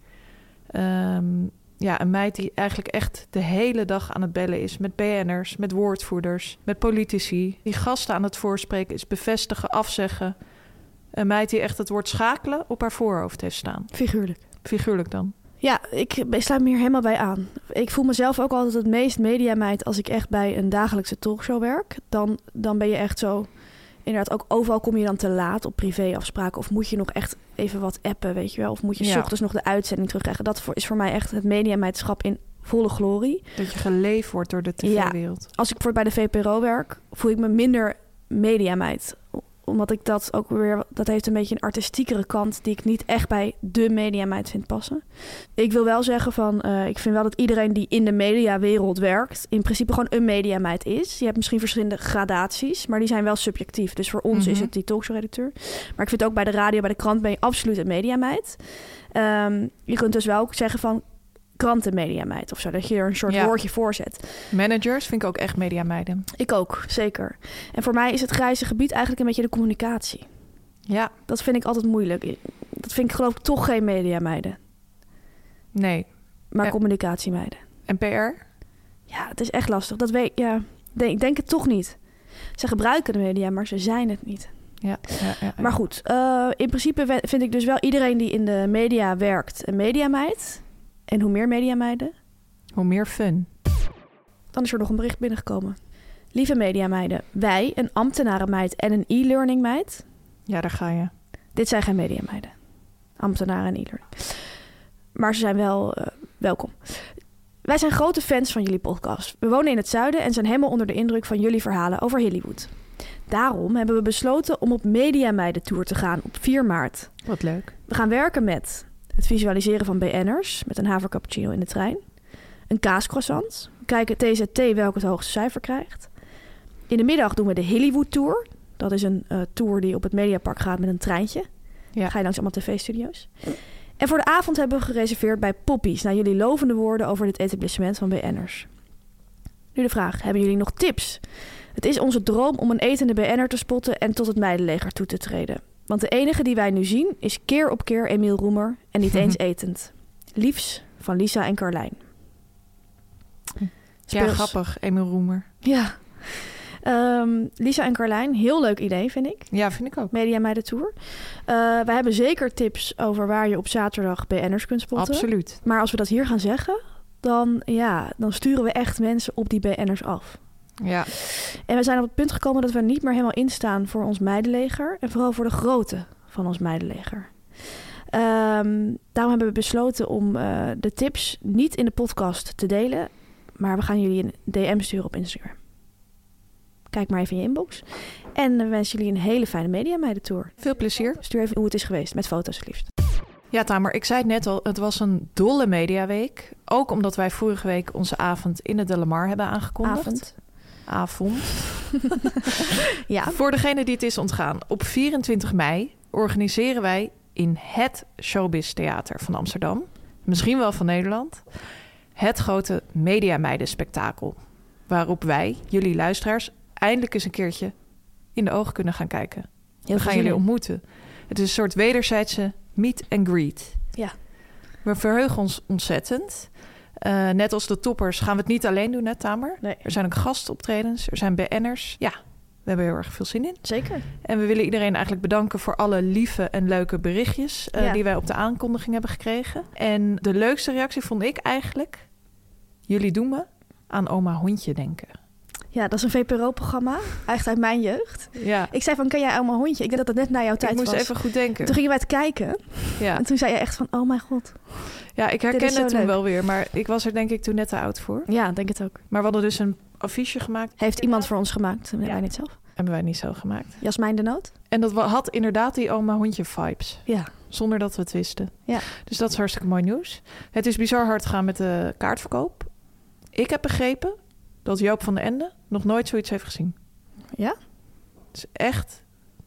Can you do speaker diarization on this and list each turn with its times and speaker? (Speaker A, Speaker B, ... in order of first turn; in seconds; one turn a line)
Speaker A: 0.7-10.4
Speaker A: 11.1-14.0
Speaker B: 13.9-14.4
Speaker A: 14.6-15.3
Speaker B: 15.6-23.5
Speaker B: 24.0-33.5
Speaker A: 29.0-29.3
Speaker A: 33.6-35.5
Speaker B: 34.8-45.0
Speaker B: 45.5-61.0
Speaker A: 54.3-54.7
Speaker B: 61.6-64.3
Speaker A: 63.3-63.6
Speaker A: 64.5-66.3
Speaker B: 66.3-70.3
Speaker A: 70.9-71.1
Speaker B: 71.3-74.6
Speaker A: 75.7-76.8
Speaker B: 76.5-77.6
Speaker A: 77.9-78.4
Speaker B: 79.1-82.0
Speaker B: 82.6-84.5
Speaker A: 84.8-85.8
Speaker B: 85.1-92.1
Speaker A: 92.7-93.5
Speaker B: 94.5-95.8
Speaker B: 96.3-100.0
Speaker A: 100.5-101.1
Speaker B: 101.5-102.5
Speaker B: 103.2-104.4
Speaker B: 105.2-107.1
Speaker B: 107.7-112.7
Speaker B: 113.3-117.1
Speaker A: 117.2-117.7
Speaker B: 117.9-122.0
Speaker B: 122.7-126.1
Speaker B: 126.9-131.5
Speaker B: 132.1-138.7
Speaker B: 139.8-141.2
Speaker B: 141.7-152.0
Speaker A: 153.6-155.5
Speaker B: 154.1-154.5
Speaker B: 155.6-159.6
Speaker A: 159.5-160.1
Speaker B: 160.1-170.4
Speaker A: 164.9-165.6
Speaker A: 170.8-171.1
Speaker B: 171.2-177.6
Speaker B: 178.1-185.6
Speaker B: 186.9-190.6
Speaker A: 190.6-191.2
Speaker B: 191.1-192.9
Speaker A: 193.5-200.3
Speaker B: 199.8-200.3
Speaker A: 200.8-202.6
Speaker B: 203.1-203.4
Speaker A: 203.3-211.4
Speaker A: 212.2-217.7
Speaker A: 218.3-223.8
Speaker B: 219.8-220.4
Speaker A: 224.8-242.1
Speaker B: 229.6-229.9
Speaker B: 233.6-234.1
Speaker B: 237.8-238.0
Speaker A: 242.9-245.1
Speaker B: 245.7-254.9
Speaker A: 248.3-248.7
Speaker A: 250.6-251.8
Speaker A: 253.0-253.2
Speaker A: 255.2-258.3
Speaker B: 255.5-256.2
Speaker B: 258.3-259.0
Speaker A: 259.1-260.8
Speaker B: 260.8-262.6
Speaker A: 262.8-263.8
Speaker B: 263.8-264.5
Speaker A: 264.7-272.7
Speaker B: 267.1-267.3
Speaker A: 273.3-276.8
Speaker A: 278.3-279.0